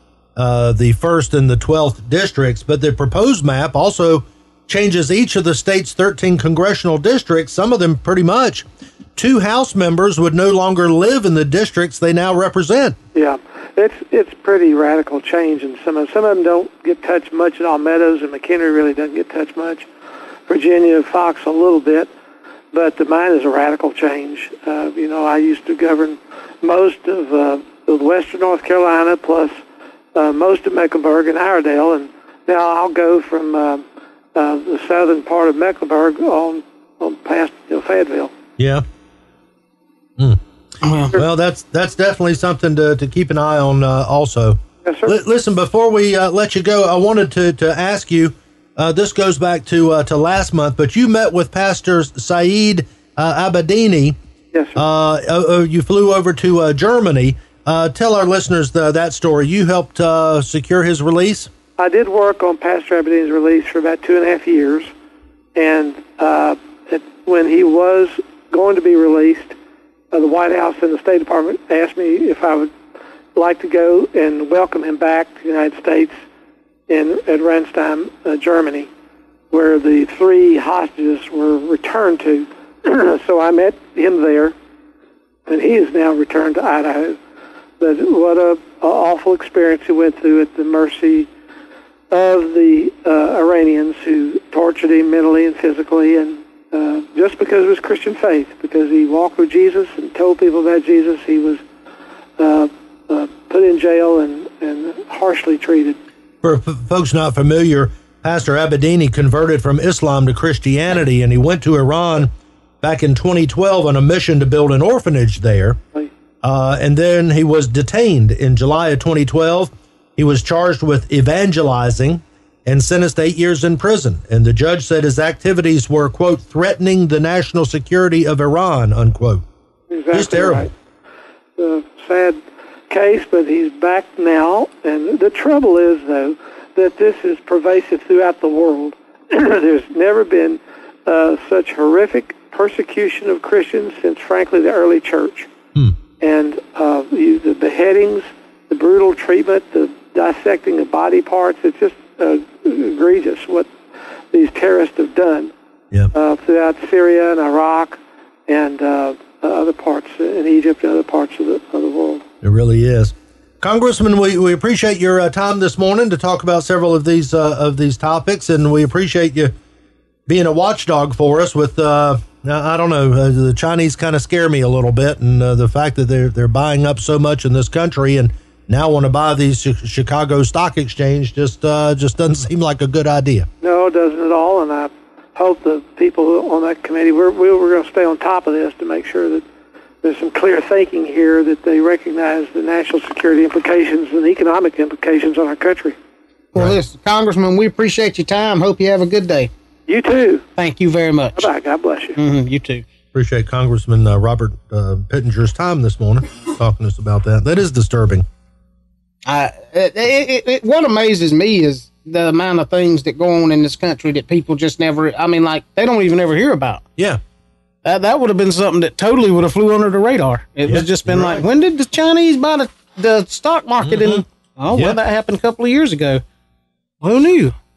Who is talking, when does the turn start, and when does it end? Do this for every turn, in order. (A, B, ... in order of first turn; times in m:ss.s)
0:00.4-0:08.6 A
0:09.2-0:13.0 A
0:13.1-0:19.9 B
0:20.5-0:22.1 B
0:22.7-0:29.5 B
0:30.2-0:33.8 B
0:34.4-0:38.3 B
0:38.6-0:38.8 A
0:40.8-0:41.2 C
0:41.1-0:54.2 A
0:44.8-0:45.2 B
0:54.5-0:54.8 B
0:54.8-1:01.5 A
1:01.8-1:04.9 B
1:05.6-1:09.6 B
1:10.1-1:12.7 B
1:13.4-1:16.1 B
1:16.9-1:18.9 B
1:19.5-1:24.6 B
1:25.5-1:27.2 B
1:27.8-1:31.3 B
1:32.1-1:41.6 B
1:42.4-1:46.0 B
1:46.4-1:52.3 A
1:52.8-1:55.8 A
1:56.4-2:09.4 A
2:09.9-2:10.7 B
2:10.1-2:10.7 A
2:11.6-2:12.4 B
2:12.9-2:25.5 B
2:26.2-2:33.7 B
2:34.3-2:35.5 B
2:36.1-2:42.2 B
2:42.4-2:49.5 A
2:50.3-3:03.5 A
3:03.6-3:09.4 B
3:10.0-3:16.0 B
3:16.5-3:19.5 C
3:19.9-3:20.4 B
3:20.6-3:21.5 C
3:21.4-3:22.2 B
3:22.2-3:22.8 C
3:23.1-3:28.2 A
3:29.3-3:36.8 C
3:37.8-3:46.2 C
3:40.7-3:41.4 A
3:43.8-3:44.2 A
3:47.0-3:47.5 C